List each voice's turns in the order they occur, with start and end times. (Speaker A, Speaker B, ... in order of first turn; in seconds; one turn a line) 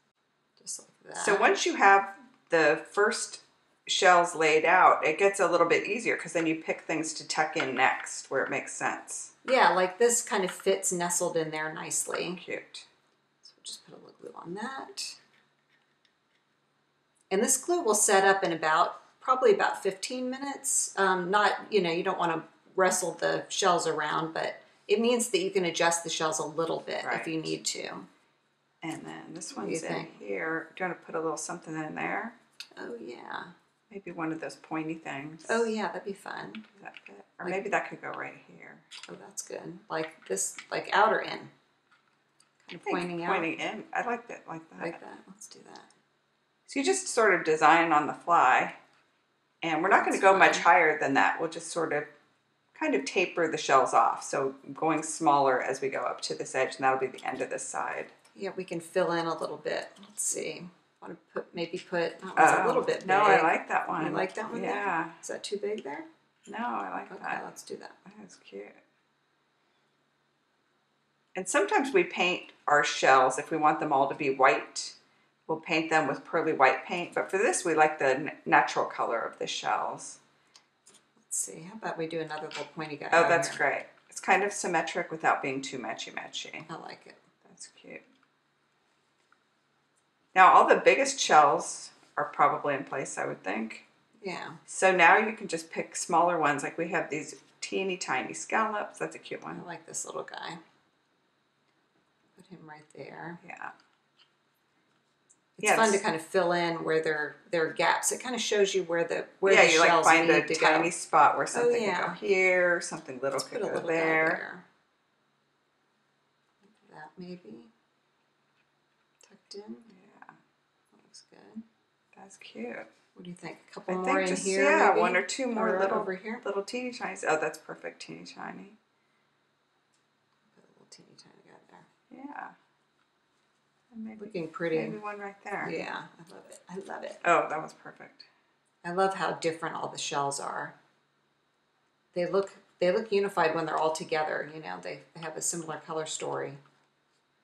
Speaker A: 0.6-1.6
Speaker B: 1.1-9.3
Speaker A: 9.4-12.4
Speaker B: 12.1-12.9
Speaker A: 13.4-15.2
Speaker A: 17.3-28.1
Speaker B: 27.0-27.3
Speaker B: 28.8-32.4
Speaker A: 29.5-30.2
Speaker A: 32.8-33.5
Speaker B: 33.9-35.7
Speaker A: 35.5-36.6
Speaker B: 36.7-38.9
Speaker A: 39.1-41.5
Speaker A: 42.6-43.5
Speaker B: 42.8-45.0
Speaker A: 44.8-45.9
Speaker B: 46.7-48.8
Speaker B: 49.6-52.1
Speaker A: 49.9-50.7
Speaker B: 52.7-58.1
Speaker A: 58.3-66.1
Speaker B: 62.4-65.2
Speaker B: 66.5-67.4
Speaker A: 67.1-67.9
Speaker B: 68.0-68.8
Speaker B: 71.3-80.2
Speaker A: 81.2-83.6
Speaker B: 83.1-86.7
Speaker A: 86.7-87.2
Speaker B: 87.4-88.0
Speaker B: 90.3-93.8
Speaker A: 94.2-94.6
Speaker B: 94.7-99.6
Speaker A: 99.5-100.6
Speaker A: 102.3-103.4
Speaker B: 103.4-103.7
Speaker A: 105.6-110.9
Speaker B: 105.6-106.0
Speaker B: 109.5-114.4
Speaker A: 111.5-112.2
Speaker A: 113.3-114.6
Speaker A: 116.7-117.7
Speaker A: 119.2-119.9
Speaker B: 119.9-120.3
Speaker A: 120.9-121.6
Speaker B: 122.1-122.9
Speaker A: 123.1-126.4
Speaker B: 123.9-128.8
Speaker A: 130.5-131.8
Speaker B: 132.1-132.5
Speaker B: 133.9-135.7
Speaker A: 134.2-135.0
Speaker A: 135.6-137.2
Speaker B: 137.2-138.2
Speaker A: 138.8-140.7
Speaker A: 142.1-146.6